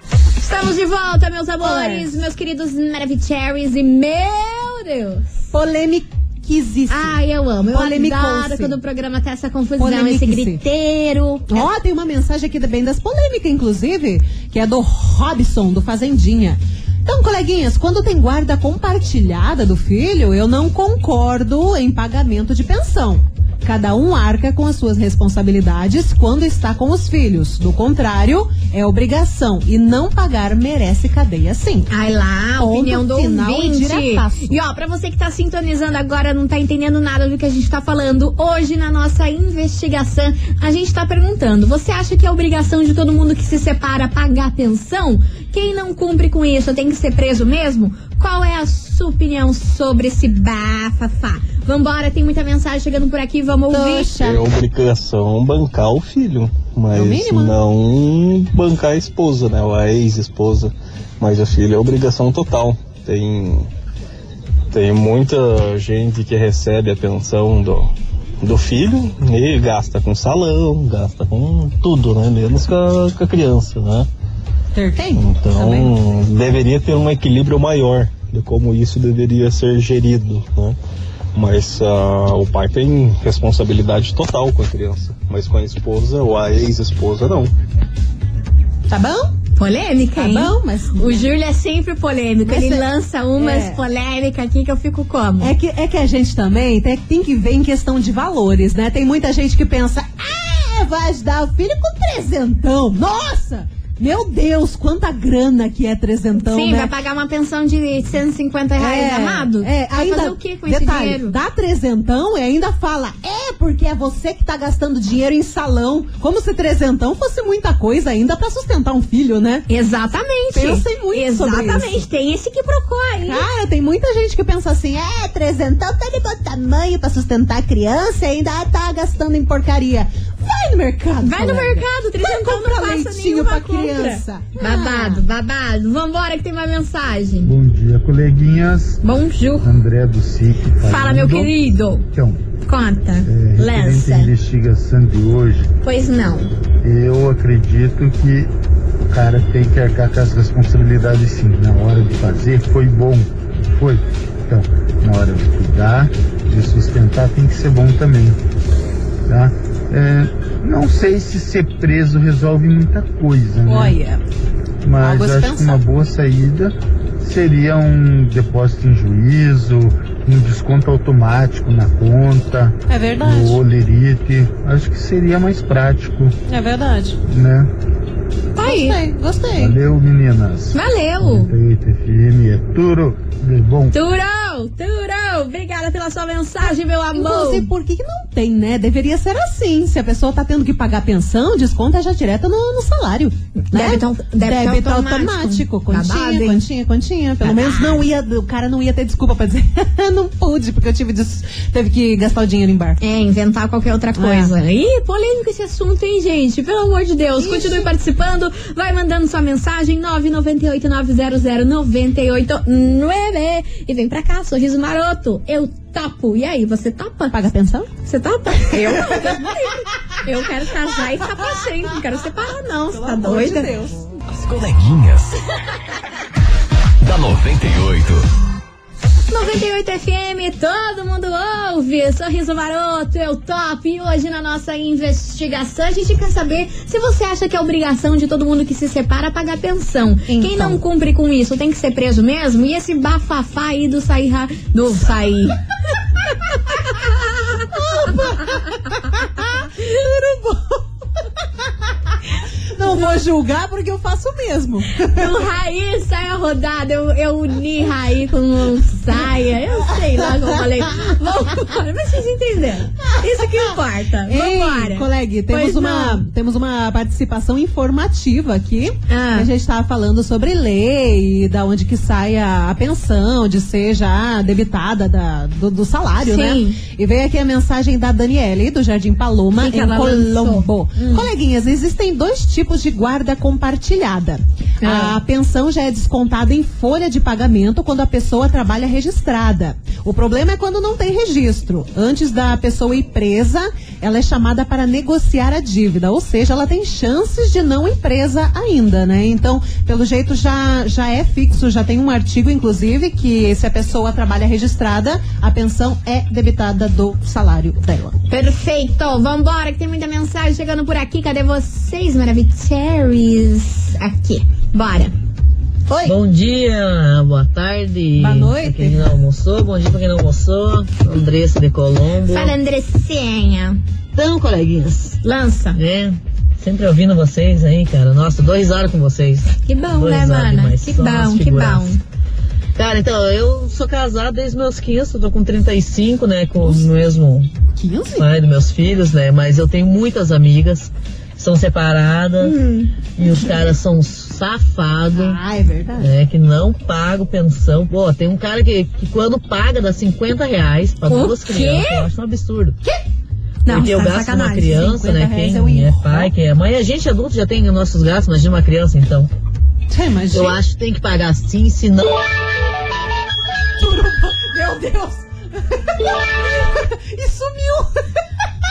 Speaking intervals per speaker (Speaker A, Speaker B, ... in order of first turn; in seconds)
Speaker A: 0.4-5.3, 6.9-11.7, 31.9-54.1, 89.6-95.5, 106.4-111.4, 119.7-123.5, 131.2-137.5, 139.0-139.7, 140.8-142.0, 142.6-144.3, 145.8-146.5, 178.6-179.0, 180.7-181.5, 183.9-187.7, 193.6-196.6, 197.4-198.1, 203.0-217.4, 218.0-223.7, 229.3-245.6, 247.0-247.6, 255.1-266.2, 269.1-269.5, 276.2-276.8, 279.6-281.3, 284.8-285.2, 308.3-315.1, 322.3-323.8, 325.2-325.8, 329.6-332.0, 342.4-342.9, 351.1-352.1, 353.7-354.8
Speaker B: 1.6-2.1, 5.5-7.2, 7.7-8.8, 9.8-10.6, 11.5-31.9, 32.6-34.5, 53.7-54.4, 56.9-57.6, 74.7-75.9, 88.9-89.3, 90.2-91.3, 92.5-92.8, 93.4-93.8, 95.4-106.9, 108.8-119.7, 120.5-122.0, 123.2-135.2, 163.7-164.2, 165.0-165.8, 172.9-173.6, 176.5-177.2, 178.6-179.8, 187.1-203.0, 204.2-204.5, 207.4-207.9, 217.3-217.9, 218.8-219.2, 222.9-224.2, 240.3-240.8, 247.6-251.3, 252.7-255.4, 263.1-263.7, 264.3-308.2, 315.9-316.2, 318.2-319.1, 336.6-336.9, 337.8-338.3, 343.2-343.7, 345.1-346.1, 354.6-356.3, 359.9-360.6, 363.8-368.1
Speaker C: 54.2-63.7, 64.7-67.9, 68.4-74.1, 75.2-80.8, 81.3-87.5
Speaker D: 137.4-139.0, 139.6-142.4, 143.2-145.7, 146.8-148.5, 149.1-158.4, 159.3-164.0, 164.8-176.3, 177.3-177.7, 179.6-183.9
Speaker E: 224.3-225.4, 227.0-228.3
Speaker F: 316.1-322.6, 324.1-325.2, 325.7-332.0, 332.8-337.5, 338.2-342.6, 343.2-345.4, 346.0-352.8, 353.7-359.3, 360.3-362.2